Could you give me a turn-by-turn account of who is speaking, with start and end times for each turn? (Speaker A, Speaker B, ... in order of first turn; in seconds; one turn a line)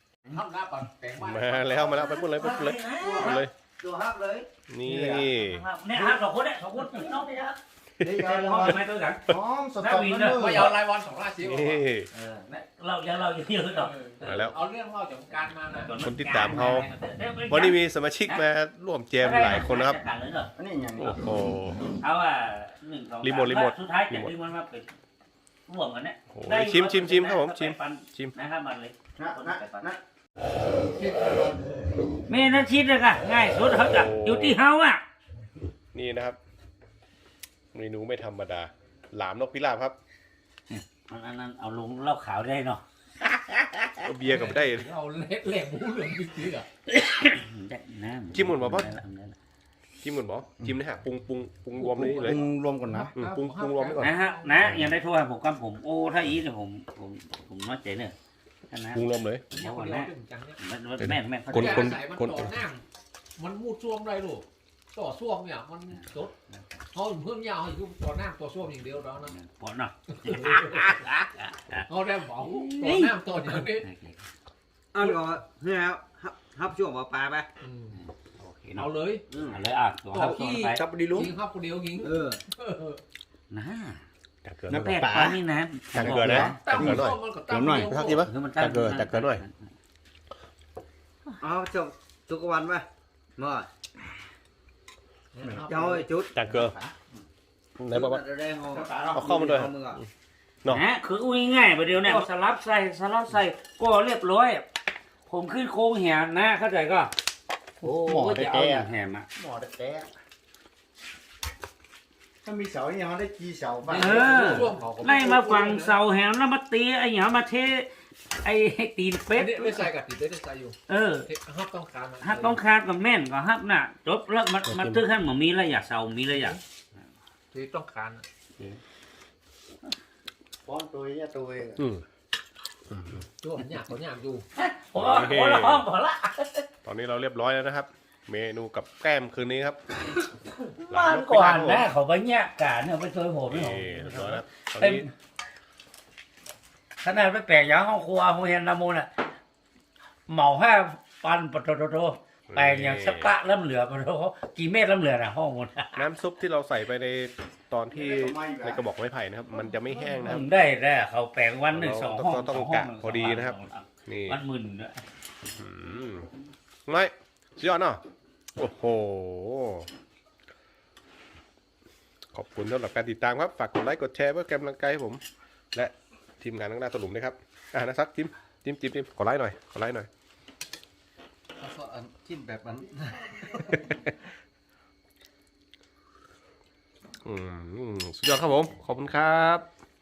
Speaker A: 0.3-2.1
Speaker B: 1.2-3.5
Speaker C: 1.9-3.4
Speaker D: 3.0-4.4
Speaker B: 4.7-5.7
Speaker E: 4.8-5.3
Speaker C: 5.3-10.7
Speaker E: 8.0-10.7
Speaker A: 10.4-11.8
Speaker B: 11.4-12.1
Speaker C: 12.1-14.5
Speaker A: 13.7-15.9
Speaker B: 14.2-14.6
Speaker C: 15.3-18.4
Speaker B: 16.0-16.9
Speaker B: 17.5-20.0
Speaker C: 19.2-20.5
Speaker E: 20.5-21.2
Speaker B: 21.0-21.8
Speaker C: 22.0-24.9
Speaker B: 23.2-24.3
Speaker C: 25.7-29.9
Speaker B: 26.3-28.3
Speaker E: 29.2-30.0
Speaker C: 32.3-35.0
Speaker B: 33.6-34.6
Speaker B: 35.9-36.4
Speaker B: 37.7-40.0
Speaker C: 40.7-42.8
Speaker C: 43.5-43.9
Speaker B: 44.0-44.9
Speaker A: 44.3-46.6
Speaker C: 46.9-49.4
Speaker B: 48.3-48.9
Speaker B: 50.0-52.4
Speaker E: 51.8-53.1
Speaker A: 52.9-54.8
Speaker B: 53.1-54.9
Speaker C: 54.0-58.1
Speaker C: 58.7-62.0
Speaker B: 58.9-59.5
Speaker A: 59.5-60.6
Speaker B: 61.0-62.6
Speaker A: 61.5-62.8
Speaker A: 63.4-66.3
Speaker C: 65.9-66.8
Speaker A: 66.9-69.3
Speaker C: 69.2-74.2
Speaker A: 70.2-70.9
Speaker A: 71.8-73.9
Speaker D: 74.9-77.5
Speaker A: 77.6-78.0
Speaker C: 77.9-80.8
Speaker A: 78.7-79.2
Speaker D: 79.3-79.6
Speaker A: 80.1-83.0
Speaker D: 80.9-81.2
Speaker E: 81.0-81.3
Speaker D: 82.0-82.4
Speaker C: 83.5-84.0
Speaker B: 84.4-85.1
Speaker E: 84.7-85.4
Speaker C: 84.7-86.6
Speaker E: 85.9-88.0
Speaker B: 85.9-87.2
Speaker A: 86.6-88.3
Speaker B: 87.8-89.4
Speaker C: 88.2-89.5
Speaker D: 91.4-93.7
Speaker A: 95.3-96.0
Speaker D: 95.4-96.5
Speaker B: 96.3-96.8
Speaker B: 97.8-98.2
Speaker D: 97.8-100.0
Speaker B: 99.1-100.1
Speaker C: 100.7-104.7
Speaker D: 102.0-102.3
Speaker C: 105.3-107.1
Speaker E: 107.8-110.1
Speaker C: 107.8-109.3
Speaker E: 112.4-114.7
Speaker A: 113.8-116.0
Speaker C: 113.9-117.9
Speaker C: 118.4-119.9
Speaker A: 119.3-122.6
Speaker C: 120.9-121.3
Speaker C: 122.2-126.6
Speaker B: 124.6-125.0
Speaker A: 126.3-126.6
Speaker A: 127.5-128.2
Speaker E: 130.6-131.8
Speaker B: 131.8-132.0
Speaker B: 132.9-133.2
Speaker A: 133.2-134.4
Speaker C: 134.6-136.7
Speaker B: 134.9-135.9
Speaker B: 136.8-139.8
Speaker C: 140.8-145.1
Speaker B: 140.9-141.9
Speaker B: 143.5-145.1
Speaker C: 147.0-149.1
Speaker C: 150.3-156.0
Speaker B: 152.5-153.3
Speaker B: 155.9-160.5
Speaker E: 157.9-158.8
Speaker C: 160.2-165.0
Speaker B: 161.7-164.4
Speaker B: 165.5-166.3
Speaker B: 166.9-168.0
Speaker B: 168.6-169.9
Speaker B: 172.3-175.2
Speaker B: 175.7-180.1
Speaker F: 181.6-183.8
Speaker B: 187.2-189.7